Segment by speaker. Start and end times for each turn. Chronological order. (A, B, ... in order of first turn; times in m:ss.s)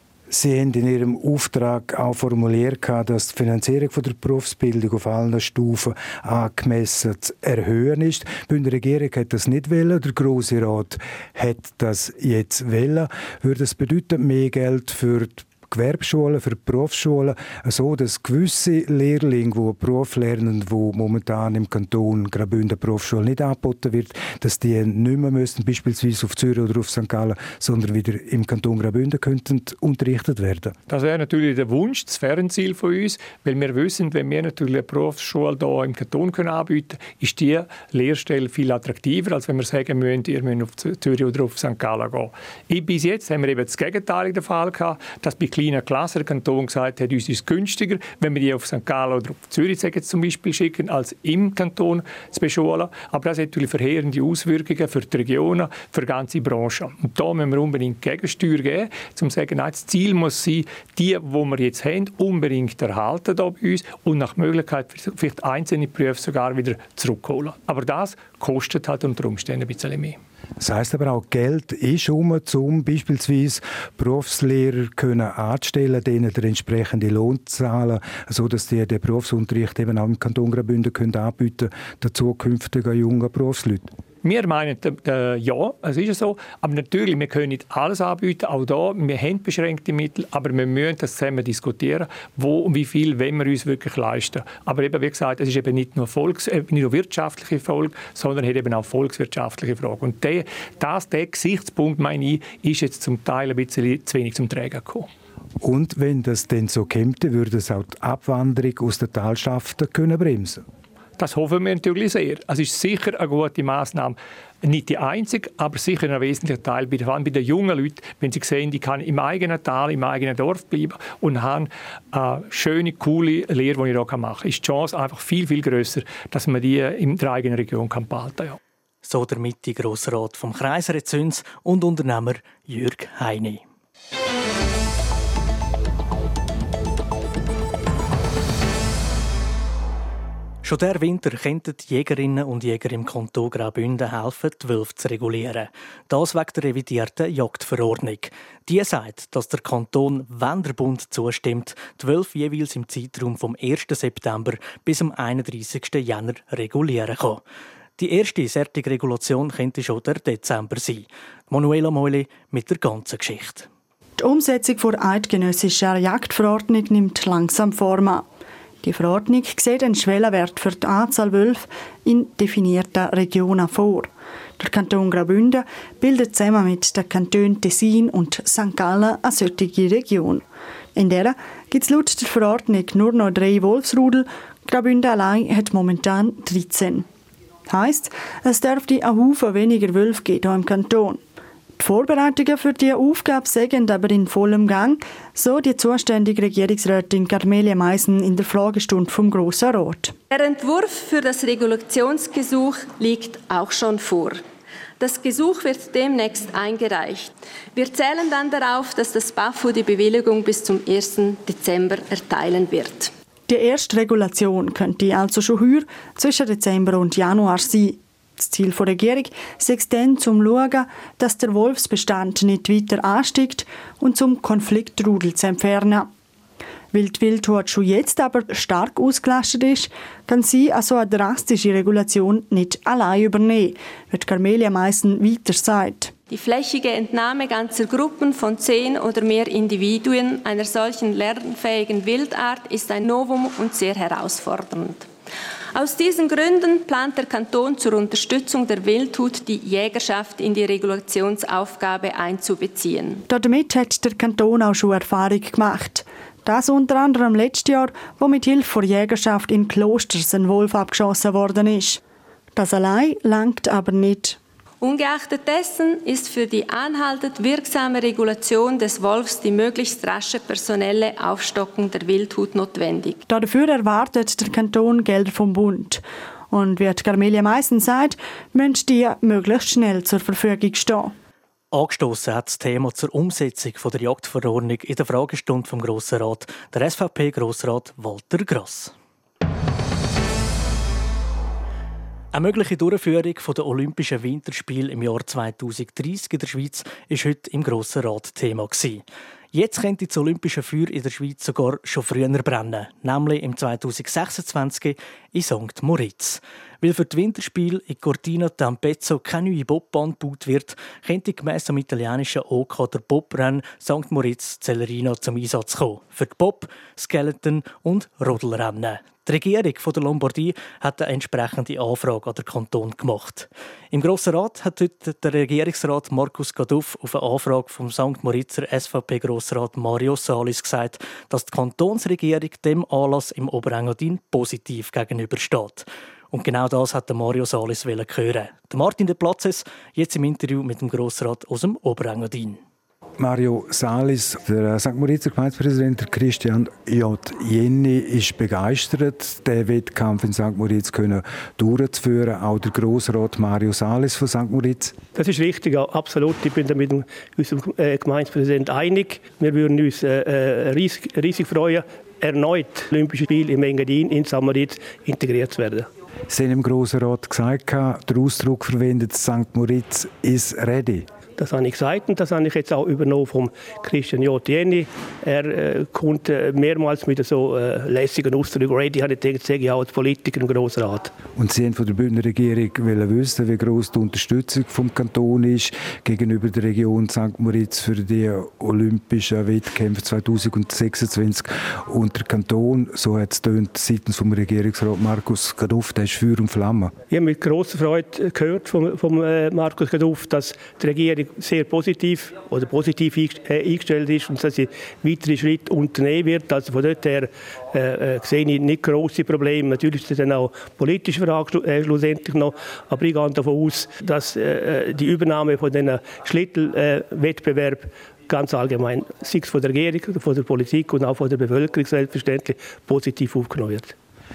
0:00.3-0:30.7 A
0:30.9-1:10.2 B
1:10.6-1:23.9 A
1:24.2-1:45.1 B
1:45.6-1:50.6 A
1:51.2-2:08.6 B
2:09.0-2:13.6 C
2:20.6-2:37.4 C
2:38.0-2:43.7 C
2:44.2-2:48.2 D
2:48.8-3:00.4 D
3:01.0-3:07.0 D
3:07.7-3:11.2 D
3:11.8-3:20.1 D
3:20.3-3:24.4 E
3:25.0-3:33.1 E
3:33.5-3:46.1 D
3:46.9-3:56.1 D
3:56.3-4:05.1 E
4:05.7-4:13.2 E
4:13.3-4:22.0 D
4:22.6-4:24.4 D
4:24.8-4:33.2 E
4:33.3-4:41.1 D
4:41.7-4:48.9 C
4:52.3-5:42.6 C
5:43.2-5:54.9 A
5:55.1-6:05.9 F
6:06.3-6:11.1 A
6:11.4-6:21.1 F
6:21.4-6:36.9 A
6:37.1-7:03.9 F